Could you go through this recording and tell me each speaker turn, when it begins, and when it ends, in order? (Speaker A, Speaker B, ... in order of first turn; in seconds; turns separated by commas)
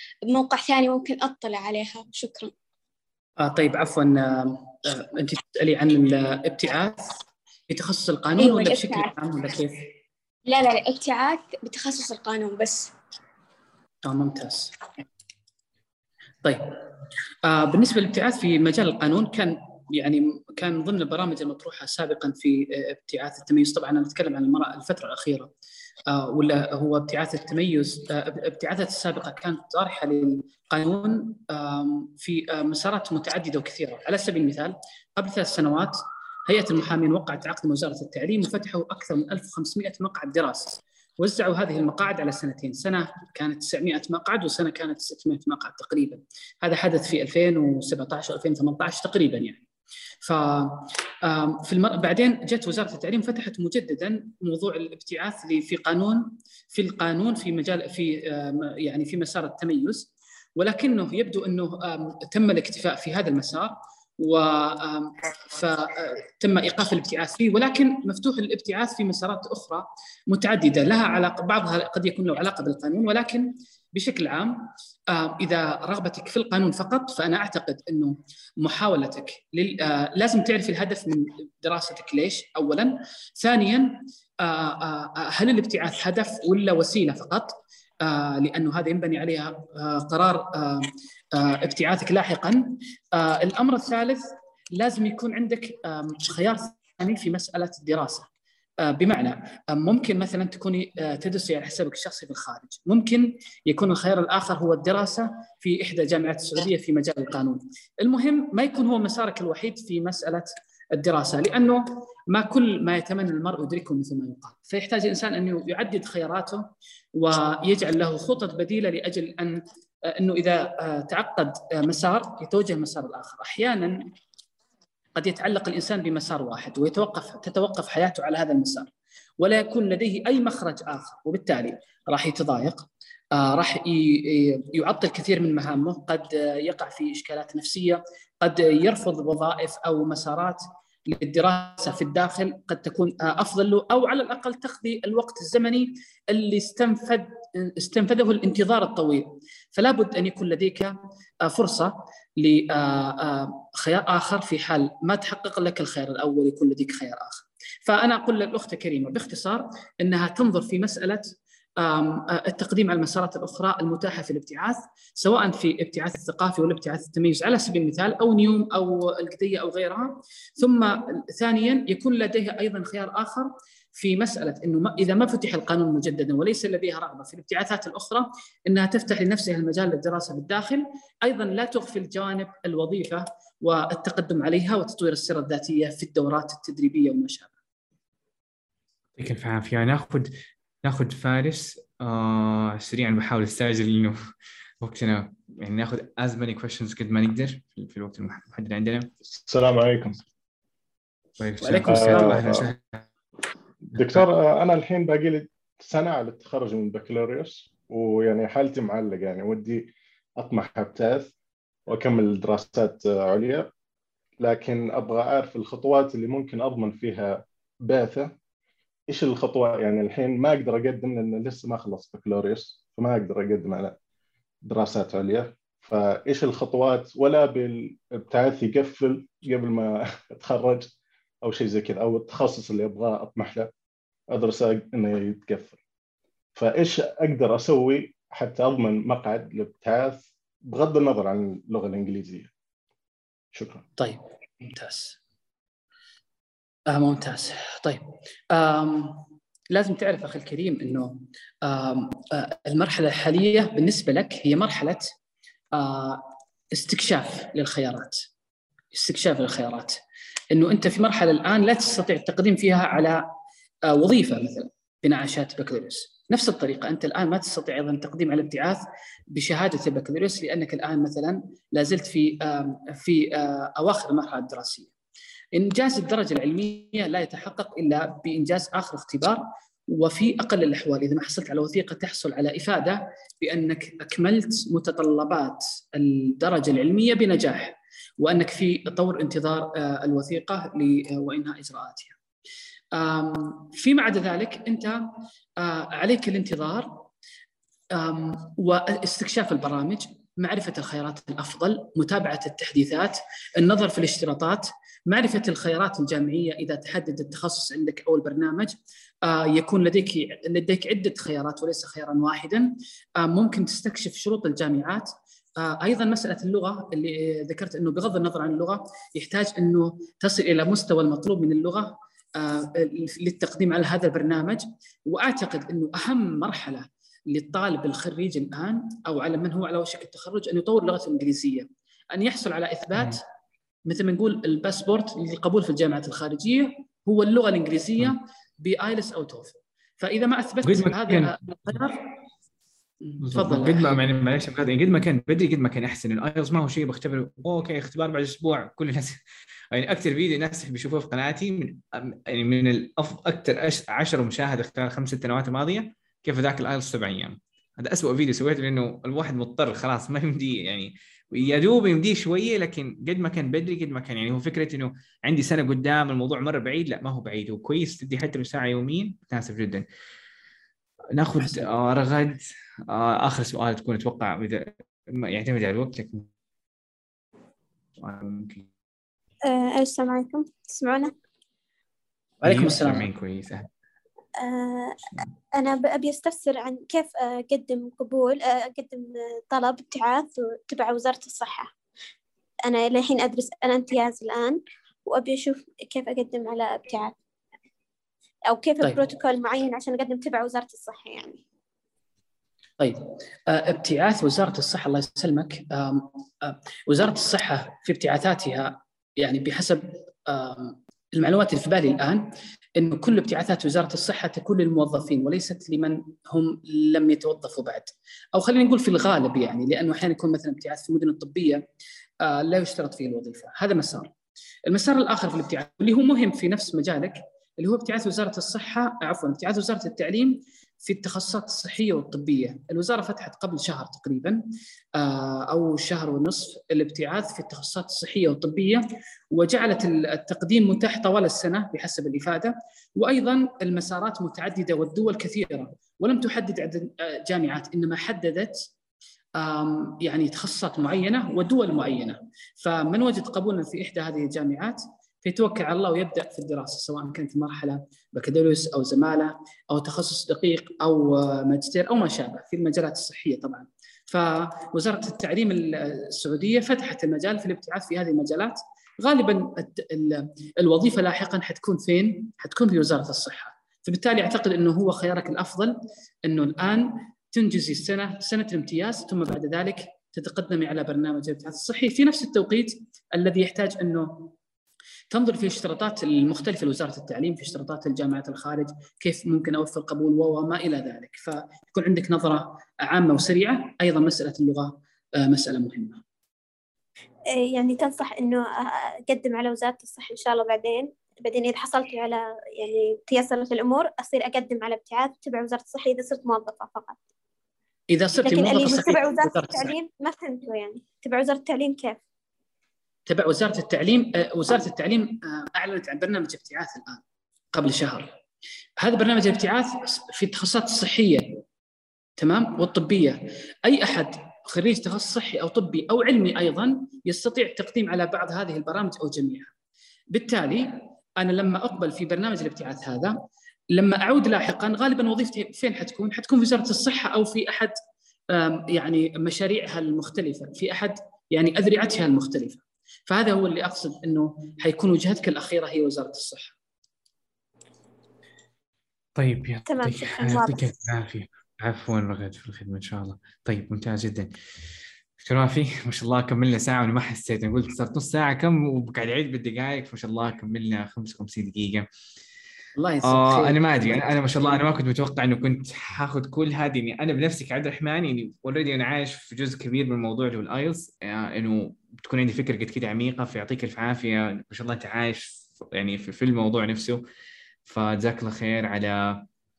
Speaker A: 0.2-2.5, Speaker B: 3.4-9.8, Speaker A: 8.4-9.1, Speaker A: 10.5-12.9, Speaker B: 14.1-14.8, Speaker B: 16.4-16.8, Speaker B: 17.4-25.5, Speaker B: 26.1-49.6, Speaker B: 50.2-98.3, Speaker B: 98.8-124.0, Speaker B: 125.2-187.5, Speaker C: 189.2-190.3, Speaker C: 190.8-194.2, Speaker C: 194.8-199.1, Speaker D: 199.5-200.2, Speaker C: 201.4-203.1, Speaker B: 201.6-202.4, Speaker D: 201.9-202.6, Speaker C: 203.9-204.2, Speaker D: 203.9-211.3, Speaker D: 211.9-213.7, Speaker D: 214.4-218.3, Speaker D: 219.1-224.0, Speaker D: 224.6-230.9, Speaker D: 231.4-233.7, Speaker D: 234.3-235.8, Speaker D: 236.6-242.5, Speaker D: 243.5-243.8, Speaker B: 244.0-245.2, Speaker B: 246.9-255.1, Speaker B: 255.7-258.2, Speaker B: 258.9-260.0, Speaker B: 260.5-263.2, Speaker B: 263.9-268.8, Speaker B: 269.3-274.9, Speaker B: 275.6-292.1, Speaker B: 292.9-295.0, Speaker B: 295.6-297.0, Speaker B: 297.9-333.2, Speaker B: 333.9-342.0, Speaker C: 340.6-341.8, Speaker B: 343.0-344.0, Speaker C: 343.2-349.2, Speaker C: 349.7-369.9, Speaker C: 371.1-376.3, Speaker B: 371.4-371.7, Speaker C: 378.0-378.7, Speaker E: 379.4-381.1, Speaker B: 382.4-383.1, Speaker C: 382.4-383.7, Speaker E: 384.4-385.0, Speaker E: 385.5-391.7, Speaker E: 392.6-397.1, Speaker E: 398.5-401.4, Speaker B: 402.8-412.2, Speaker B: 412.8-421.6, Speaker B: 422.2-424.1, Speaker B: 424.7-434.4, Speaker B: 434.9-448.6, Speaker B: 449.4-484.3, Speaker B: 485.1-496.0, Speaker E: 497.3-507.0, Speaker B: 507.9-509.7, Speaker E: 508.2-512.0, Speaker B: 513.1-517.0, Speaker B: 517.5-518.1, Speaker B: 518.8-521.4, Speaker B: 522.2-529.5, Speaker B: 530.1-533.1, Speaker B: 533.7-537.7, Speaker B: 538.3-546.5, Speaker C: 549.1-554.3, Speaker E: 549.7-550.7, Speaker C: 555.2-561.9, Speaker B: 562.8-564.6, Speaker C: 563.0-577.0, Speaker C: 577.6-579.2